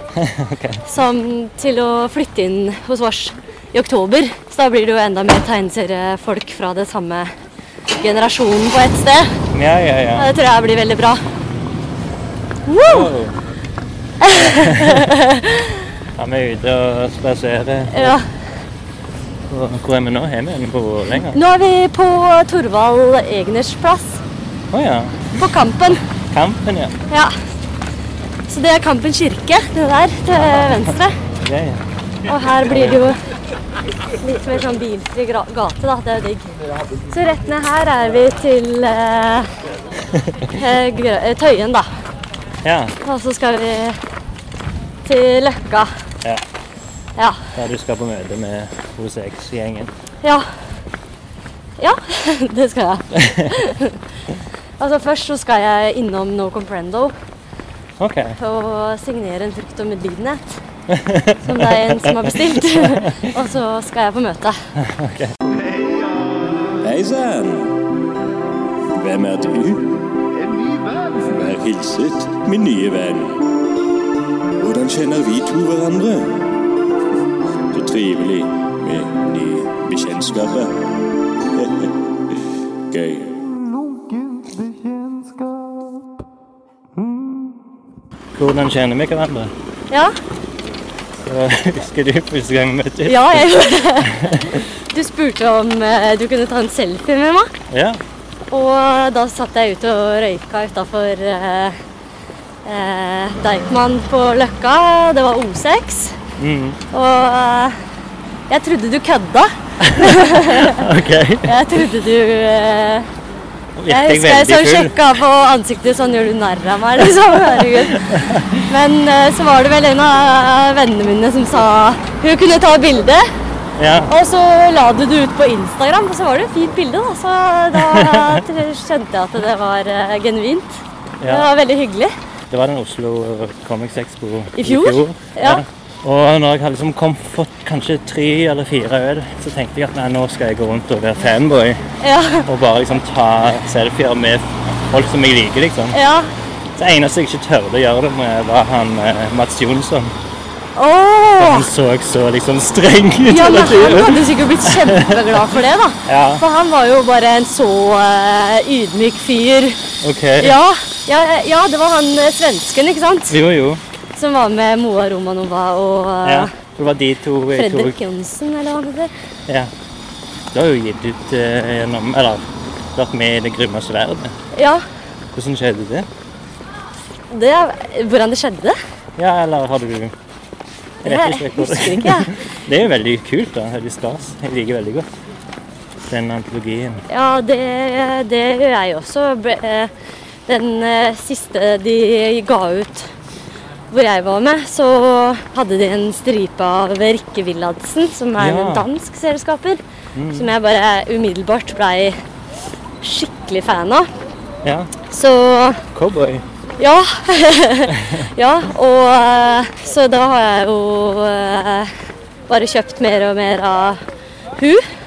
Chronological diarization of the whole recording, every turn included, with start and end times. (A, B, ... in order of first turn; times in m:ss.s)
0:00.1-0:00.9 A
0:00.9-0:07.3 B
0:07.9-0:09.4 B
0:09.5-0:10.3 A
0:10.1-0:11.2 B
0:12.6-0:13.1 B
0:12.8-0:13.4 A
0:14.2-0:15.8 B
0:14.3-0:15.1 A
0:16.2-0:18.2 A
0:17.9-0:18.3 B
0:19.5-0:21.4 A
0:21.3-0:24.2 B
0:24.7-0:25.4 A
0:25.4-0:26.0 B
0:25.9-0:27.0 A
0:27.1-0:27.5 B
0:28.5-0:31.2 B
0:30.4-0:31.8 A
0:32.2-0:33.2 B
0:32.6-0:33.1 A
0:34.1-0:39.5 B
0:40.1-0:40.6 A
0:40.5-0:41.9 B
0:42.6-0:43.0 A
0:43.0-0:44.0 B
0:45.0-0:46.0 B
0:47.2-0:47.5 B
0:47.5-0:49.9 A
0:50.2-0:50.7 B
0:51.8-0:54.0 B
0:53.1-0:53.6 A
0:54.8-0:57.1 B
0:58.0-0:58.4 A
0:58.4-1:00.6 B
1:00.9-1:03.3 A
1:01.4-1:04.8 B
1:04.8-1:05.4 A
1:05.5-1:07.8 C
1:08.9-1:13.4 C
1:14.6-1:16.5 C
1:17.7-1:20.8 C
1:21.6-1:21.9 C
1:22.9-1:23.4 C
1:27.0-1:27.5 A
1:28.3-1:29.5 A
1:31.2-1:34.6 A
1:33.0-1:37.5 B
1:37.7-1:38.0 A
1:38.5-1:41.8 B
1:42.6-1:46.2 B
1:46.4-1:46.8 A
1:46.9-1:47.8 B
1:48.5-1:50.9 B
1:49.8-1:51.6 A
1:51.4-1:53.1 B
1:53.8-1:55.0 A
1:53.9-2:03.2 B
1:57.4-1:58.6 A
2:03.8-2:04.1 A
2:04.1-2:12.1 B
2:07.7-2:08.4 A
2:11.2-2:11.5 A
2:12.5-2:21.8 A
2:14.6-2:15.6 B
2:22.0-2:22.5 B
2:22.4-2:26.0 A
2:25.9-2:26.3 B
2:26.8-2:30.1 A
2:30.8-2:31.7 B
2:31.4-2:35.4 A
2:33.3-2:39.9 B
2:36.1-2:36.4 A
2:40.0-2:40.6 A
2:40.4-2:43.4 B
2:43.3-2:43.8 A
2:44.1-2:46.5 B
2:46.2-2:48.0 A
2:47.5-2:49.1 B
2:50.5-2:54.4 A
2:54.5-2:54.8 B
2:55.3-2:56.1 A
2:57.3-2:58.8 B
2:59.2-3:00.1 A
3:01.0-3:02.4 B
3:01.0-3:05.1 A
3:06.1-3:07.0 A
3:07.1-3:09.9 B
3:10.5-3:13.1 B
3:13.9-3:22.2 B
3:18.4-3:18.9 A
3:20.1-3:20.5 A
3:23.0-3:24.1 B
3:24.6-3:24.9 A
3:25.1-3:25.8 B
3:25.9-3:26.4 A
3:26.8-3:31.9 B
3:27.9-3:28.3 A
3:32.5-3:34.0 B
3:34.6-3:34.9 B